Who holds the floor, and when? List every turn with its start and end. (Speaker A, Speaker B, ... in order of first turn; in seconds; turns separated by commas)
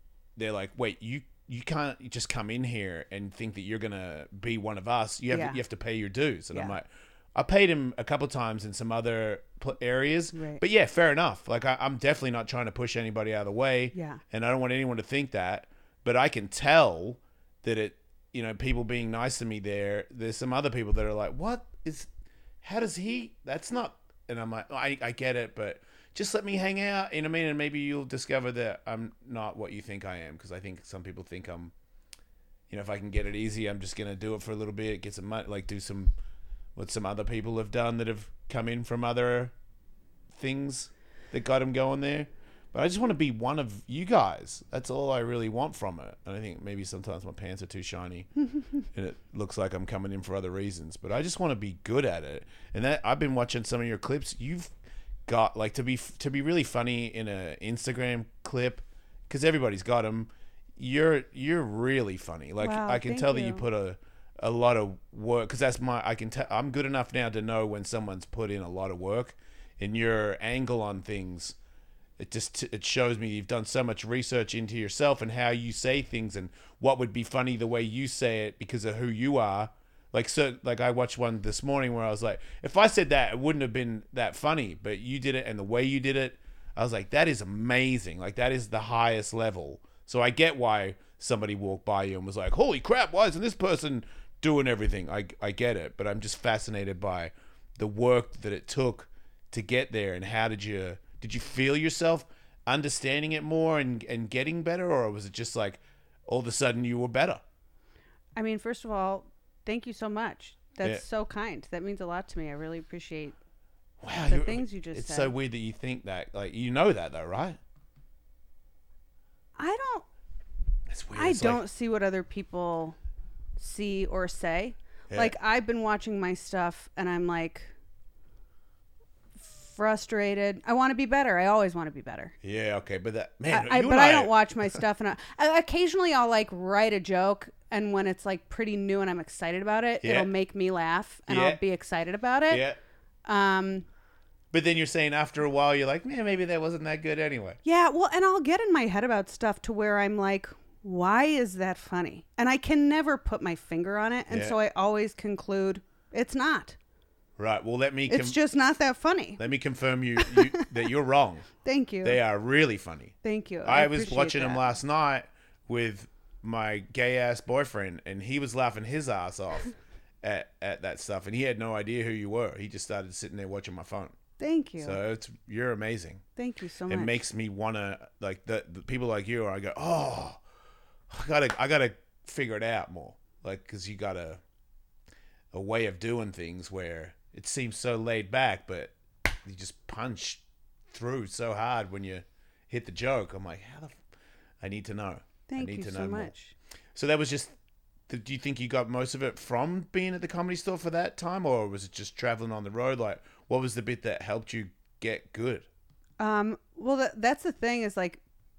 Speaker A: 0.4-22.1, Speaker B: 5.3-5.6, Speaker B: 10.3-10.6, Speaker B: 13.9-14.2, Speaker A: 22.6-31.7, Speaker A: 32.7-36.1, Speaker A: 36.8-39.5, Speaker A: 40.3-48.3, Speaker A: 48.9-54.7, Speaker A: 55.3-71.6, Speaker B: 62.6-63.6, Speaker A: 72.2-107.4, Speaker B: 108.4-113.4, Speaker A: 114.0-117.6, Speaker B: 114.3-115.3, Speaker B: 119.6-120.1, Speaker A: 120.9-121.6, Speaker B: 121.2-123.0, Speaker B: 123.6-127.7, Speaker B: 129.4-132.3, Speaker A: 132.4-134.4, Speaker B: 133.5-142.7, Speaker A: 140.0-140.3, Speaker A: 141.3-141.6, Speaker A: 142.5-142.8, Speaker B: 143.2-143.9, Speaker A: 144.5-147.6, Speaker B: 147.6-156.8, Speaker A: 154.3-154.6, Speaker A: 157.4-158.4, Speaker B: 158.1-159.4, Speaker A: 159.4-161.5, Speaker B: 160.2-160.8, Speaker B: 161.6-162.2, Speaker A: 162.0-174.1, Speaker B: 163.2-164.6, Speaker B: 174.4-175.0, Speaker A: 174.8-176.2, Speaker B: 176.4-177.2, Speaker A: 176.9-180.4, Speaker A: 181.1-184.4, Speaker A: 185.5-188.9, Speaker A: 189.4-194.0, Speaker A: 194.6-196.3, Speaker B: 195.5-196.5, Speaker A: 196.9-197.5, Speaker A: 198.1-205.7, Speaker B: 206.2-208.2